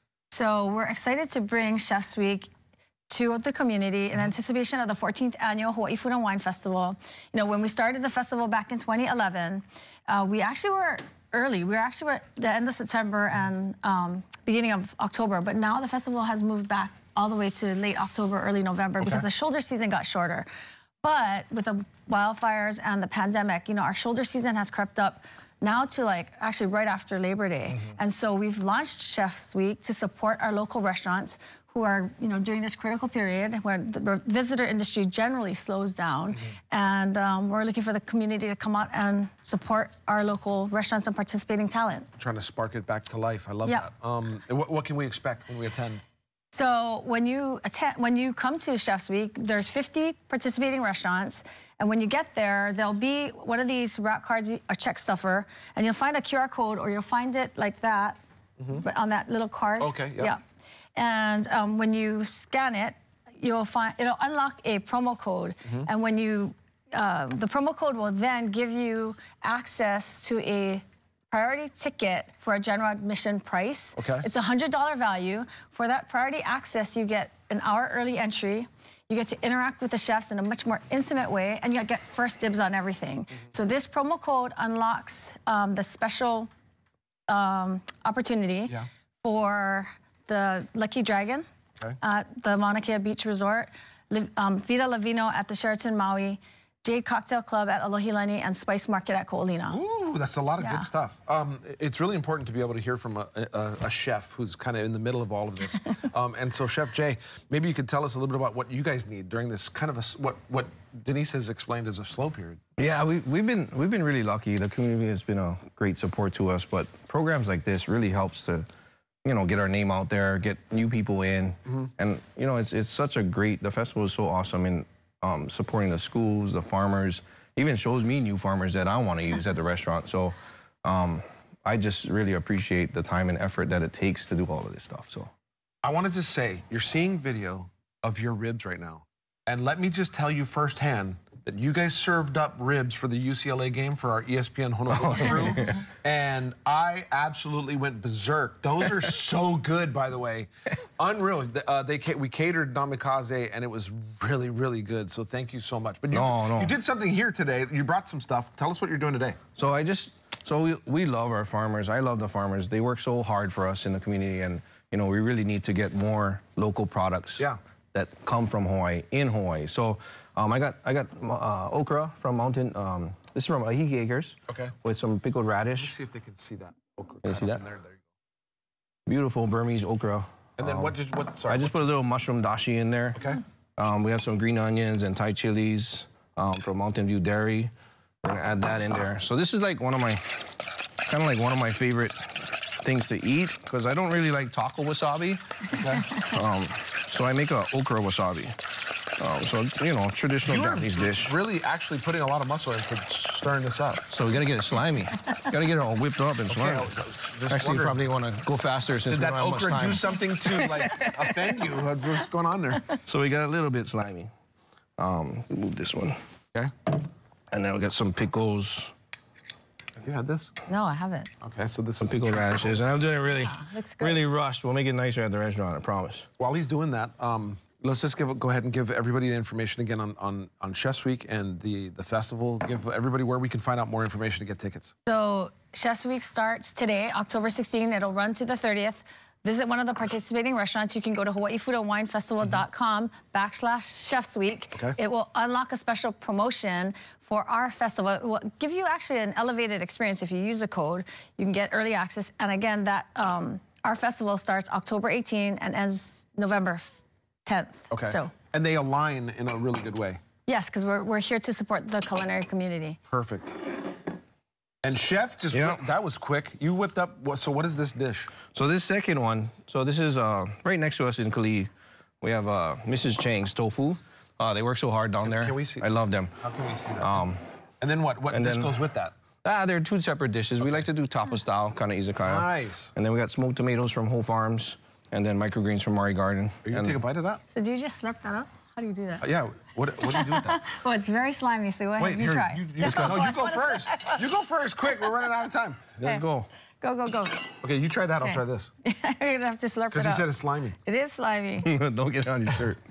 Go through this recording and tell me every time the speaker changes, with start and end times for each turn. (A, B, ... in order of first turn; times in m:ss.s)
0:00.3-0:02.5 A
0:03.1-0:20.5 A
0:19.0-0:19.2 B
0:21.0-0:42.1 A
0:42.2-0:46.0 B
0:46.5-0:58.2 A
0:58.6-0:58.8 B
0:58.7-1:00.4 A
0:59.8-1:00.3 B
1:01.0-1:26.5 A
1:14.0-1:14.3 B
1:27.3-1:31.4 A
1:32.0-1:39.8 A
1:39.7-1:52.6 B
1:40.6-1:40.9 A
1:52.8-1:58.7 C
1:59.2-2:15.3 C
2:15.8-2:39.4 B
2:24.9-2:25.8 C
2:36.1-2:36.7 C
2:39.6-2:55.9 C
2:54.5-2:54.7 B
2:55.8-2:58.0 B
2:57.2-2:57.6 C
2:59.1-3:07.7 C
3:00.6-3:01.8 B
3:03.2-3:03.4 B
3:08.2-3:18.6 C
3:15.7-3:16.1 B
3:19.2-3:21.4 C
3:20.4-3:24.0 B
3:24.1-3:26.9 C
3:26.5-3:28.0 B
3:27.5-3:31.6 C
3:29.1-3:33.0 B
3:33.0-3:34.3 C
3:35.0-3:36.2 C
3:37.5-3:38.9 C
3:40.0-3:40.5 B
3:40.7-3:41.3 A
3:41.4-3:42.8 B
3:42.0-3:46.3 C
3:43.4-3:44.2 A
3:46.4-3:54.9 B
3:55.1-4:18.3 A
4:17.9-4:20.2 B
4:20.5-4:23.0 A
4:23.1-4:23.8 B
4:24.8-4:28.3 B
4:25.5-4:25.8 C
4:28.5-4:31.7 C
4:32.2-4:36.4 C
4:35.2-4:37.2 B
4:37.0-4:37.4 C
4:37.8-4:39.1 B
4:38.3-4:38.7 C
4:39.4-4:47.0 C
4:42.2-4:42.9 B
4:46.6-4:47.4 B
4:47.5-4:49.2 A
4:49.2-4:50.6 B
4:50.0-4:54.2 A
4:52.0-4:55.9 B
4:52.8-4:53.2 C
4:56.0-4:56.5 C
4:56.8-4:57.6 A
4:57.6-4:58.7 B
4:58.2-5:00.3 A
4:59.9-5:00.8 B
5:00.8-5:01.7 A
5:01.6-5:02.8 C